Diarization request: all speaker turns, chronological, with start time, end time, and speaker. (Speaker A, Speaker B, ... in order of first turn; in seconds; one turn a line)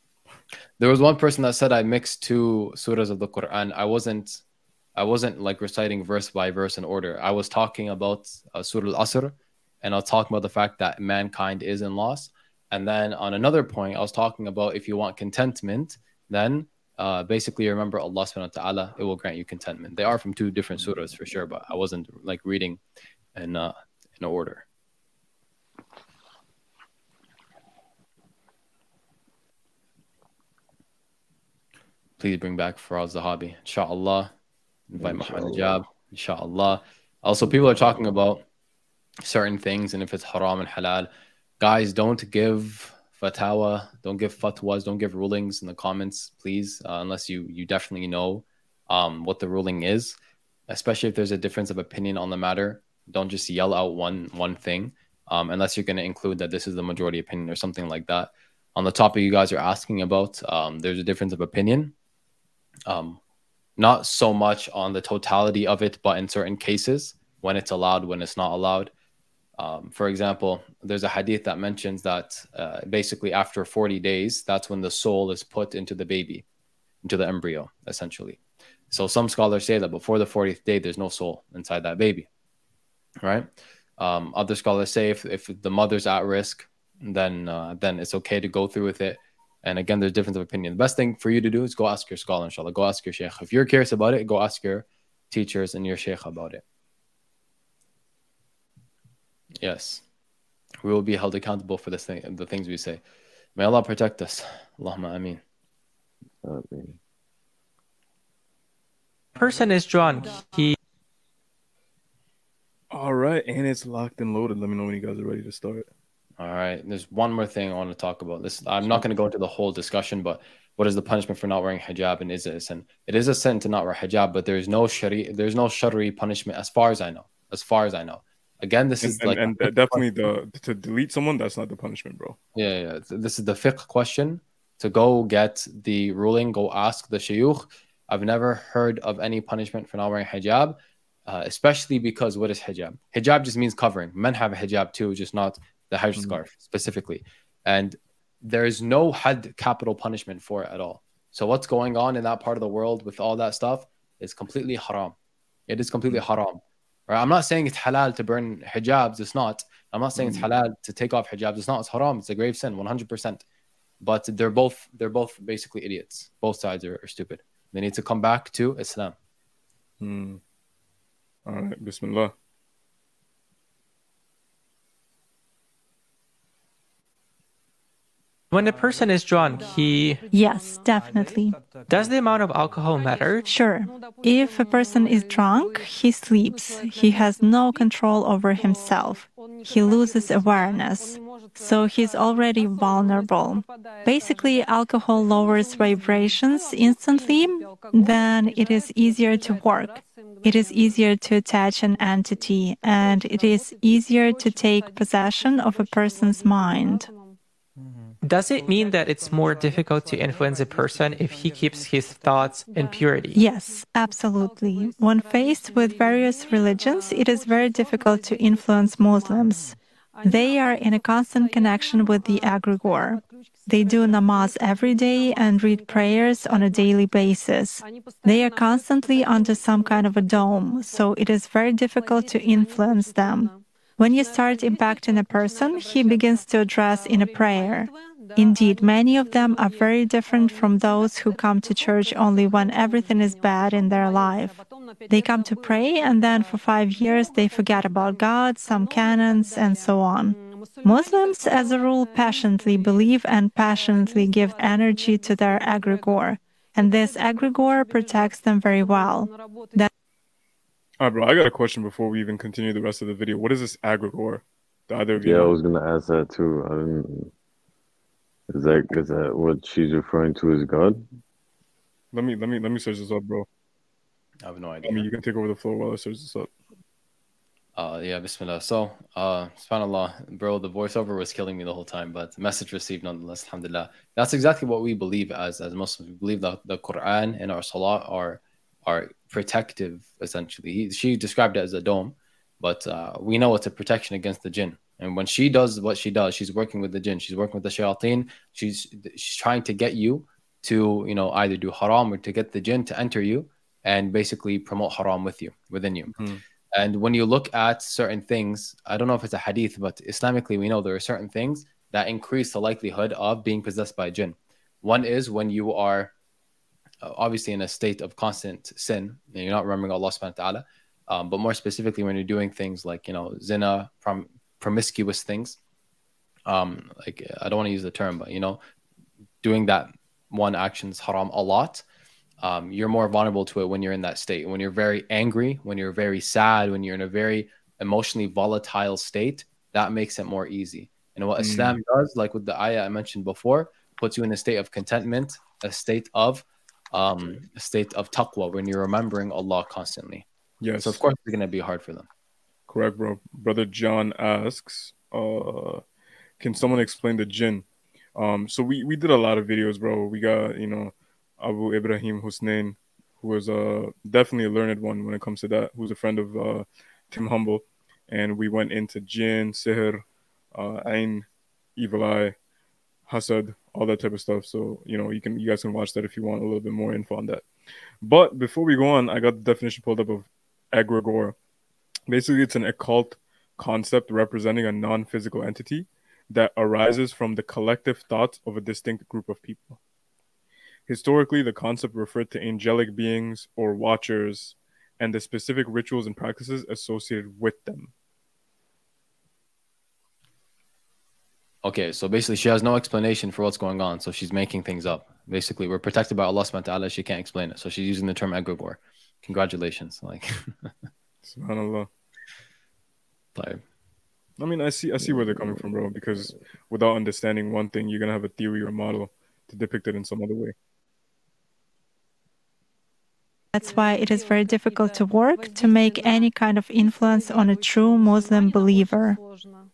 Speaker A: 0.8-4.4
Speaker A: 5.0-22.8
Speaker A: 23.3-24.6
Speaker A: 32.2-34.3
Speaker A: 34.9-38.4
Speaker B: 35.0-35.8
Speaker A: 39.2-50.1
Speaker A: 50.7-61.9
Speaker A: 62.9-63.2
Speaker A: 63.8-68.9
Speaker A: 69.6-76.4
Speaker A: 77.0-78.4
Speaker A: 78.9-82.3
Speaker A: 83.2-96.6
Speaker A: 99.6-100.0
Speaker A: 100.8-103.0
Speaker A: 103.5-105.4
Speaker B: 106.4-107.0
Speaker C: 109.3-110.8
Speaker D: 112.9-115.9
Speaker A: 116.4-130.0
Speaker D: 129.0-132.4
Speaker A: 132.5-155.2
Speaker A: 155.7-163.4
Speaker D: 160.2-160.4
Speaker A: 164.0-169.1
Speaker D: 170.0-170.4
Speaker D: 171.4-172.3
Speaker C: 178.5-180.2
Speaker E: 180.3-181.6
Speaker C: 181.9-183.4
Speaker E: 183.4-207.1
Speaker C: 208.2-213.4
Speaker E: 213.3-259.9
Speaker D: 261.0-265.5
Speaker B: 265.1-267.3
Speaker B: 268.5-271.0
Speaker D: 272.1-273.5
Speaker A: 274.4-275.1
Speaker D: 274.8-276.5
Speaker A: 277.8-306.1
Speaker D: 306.1-306.4
Speaker A: 306.7-316.1
Speaker A: 317.0-325.6
Speaker A: 326.5-328.6
Speaker A: 329.4-331.8
Speaker A: 332.4-350.2
Speaker D: 341.4-341.8
Speaker D: 350.6-351.0
Speaker A: 350.8-352.1
Speaker D: 352.7-355.8
Speaker D: 356.4-372.4
Speaker D: 373.1-377.4
Speaker D: 378.0-381.3
Speaker D: 382.1-389.8
Speaker D: 390.9-397.9
Speaker A: 401.6-410.7
Speaker D: 411.2-411.9
Speaker A: 413.4-413.6
Speaker D: 414.4-420.5
Speaker E: 423.5-429.2